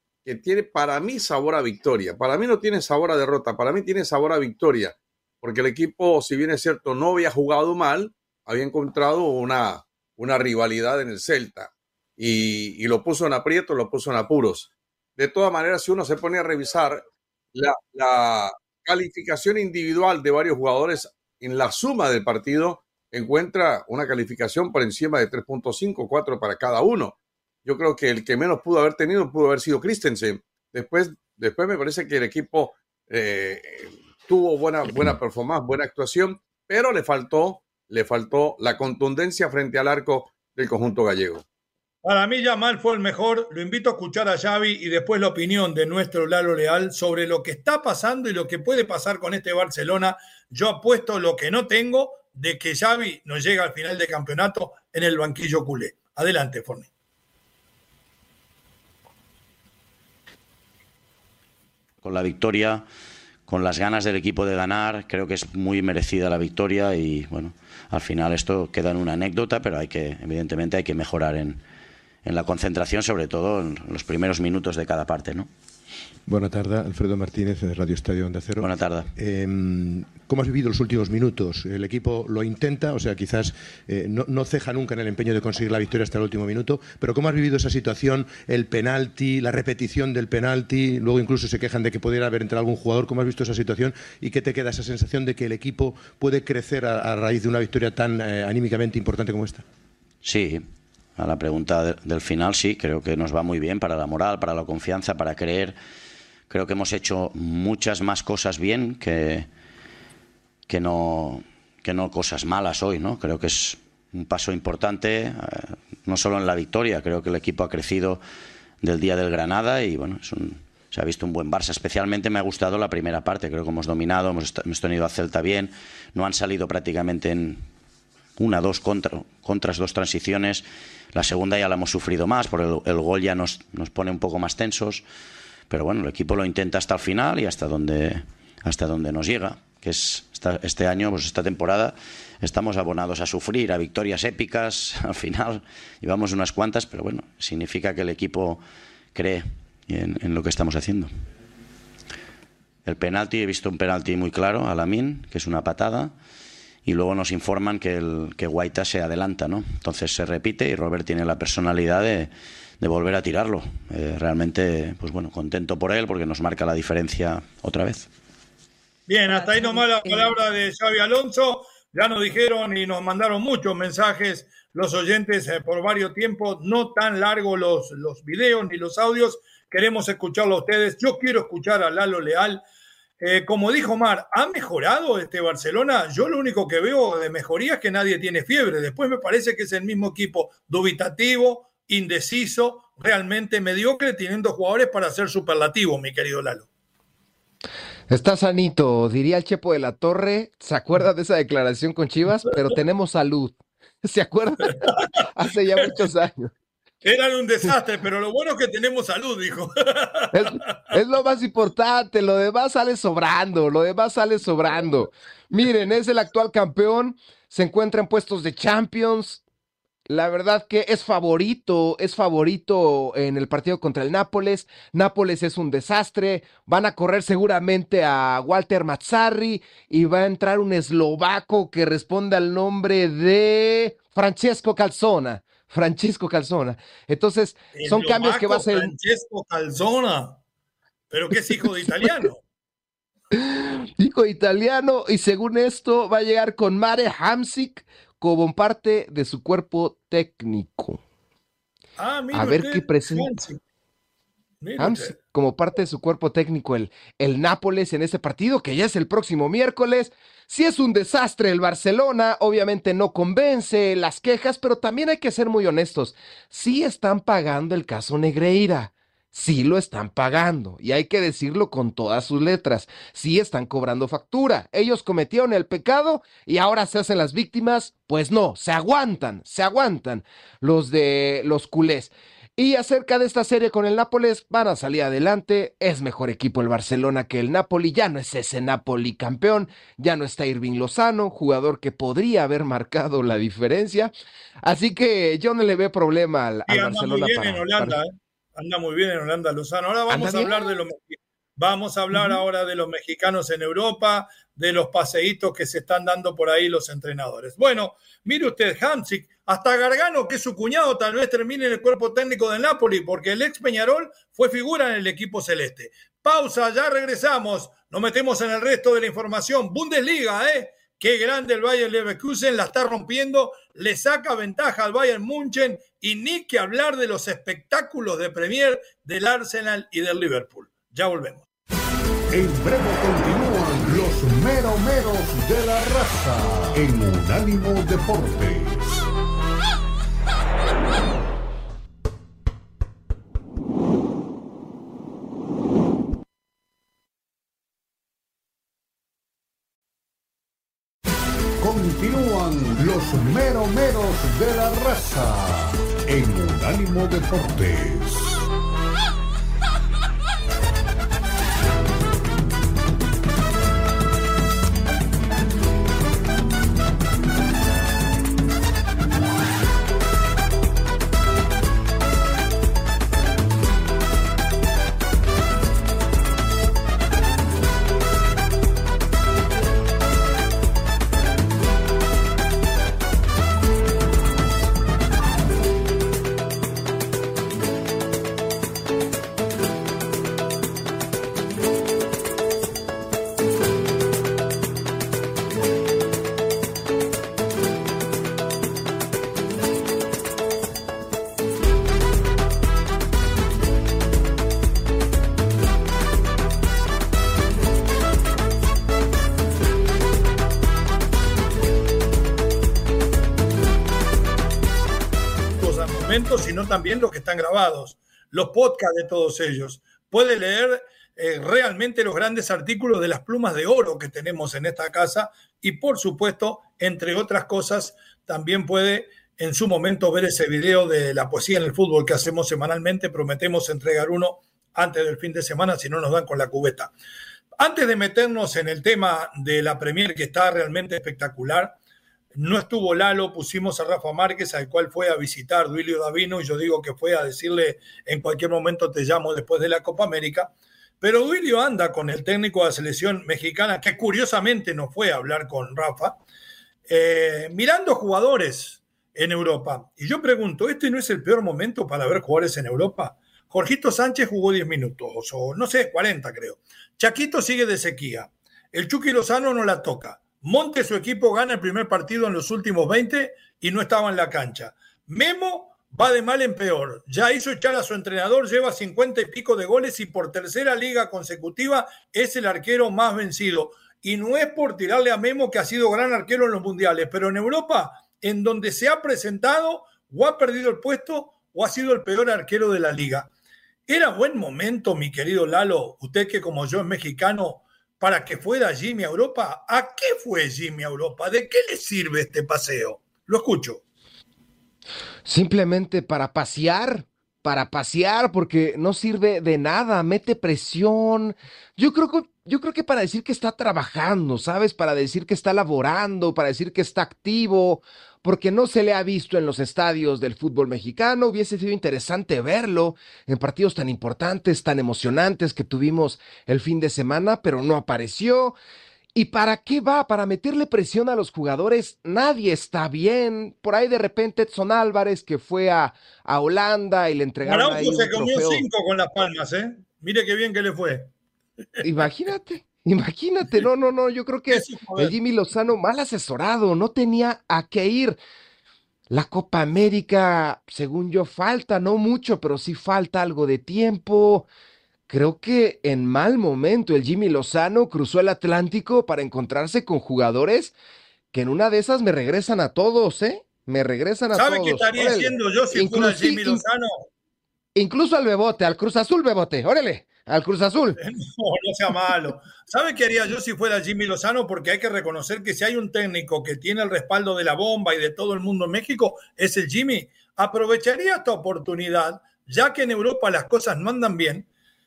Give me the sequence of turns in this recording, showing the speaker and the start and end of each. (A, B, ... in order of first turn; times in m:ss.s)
0:00.2-0:41.4 A
0:42.0-0:56.9 B
1:02.0-1:02.8 C
1:03.5-1:11.6 C
1:12.2-1:15.5 C
1:16.3-1:39.6 D
1:18.6-1:19.1 C
1:40.2-1:40.6 C
1:41.2-1:45.8 C
1:46.5-1:49.5 C
1:50.7-1:58.2 C
1:58.8-2:07.6 C
2:08.4-2:15.0 C
2:15.7-2:28.6 C
2:29.1-2:31.1 C
2:32.8-2:36.1 C
2:36.8-2:48.1 C
2:49.1-3:02.6 B
3:03.2-3:16.7 B
3:18.1-3:26.5 E
3:27.0-3:30.6 B
3:30.3-3:39.4 E
3:40.1-3:58.9 E
3:57.7-4:00.4 B
4:01.1-4:02.4 B
4:03.3-4:11.0 E
4:12.0-4:13.6 B
4:12.3-4:13.3 E
4:14.6-4:15.1 B
4:14.8-4:54.1 E
4:54.6-4:58.0 E
4:56.7-5:31.4 B
5:00.1-5:00.6 E
5:32.3-5:39.0 F
5:51.6-5:58.5 F
6:55.6-7:16.9 B
7:17.6-7:21.8 B
7:22.3-7:36.2 B
7:36.9-8:13.3 B
8:13.9-8:23.8 B
8:25.2-8:48.5 E
8:49.1-8:58.6 E
8:57.4-9:01.1 B
9:01.8-9:08.2 E
9:04.5-9:05.1 B
9:09.1-9:14.5 E
9:15.1-9:20.7 E
9:21.3-9:26.6 E
9:24.3-9:26.9 B
9:27.7-9:31.0 E
9:31.0-9:44.5 B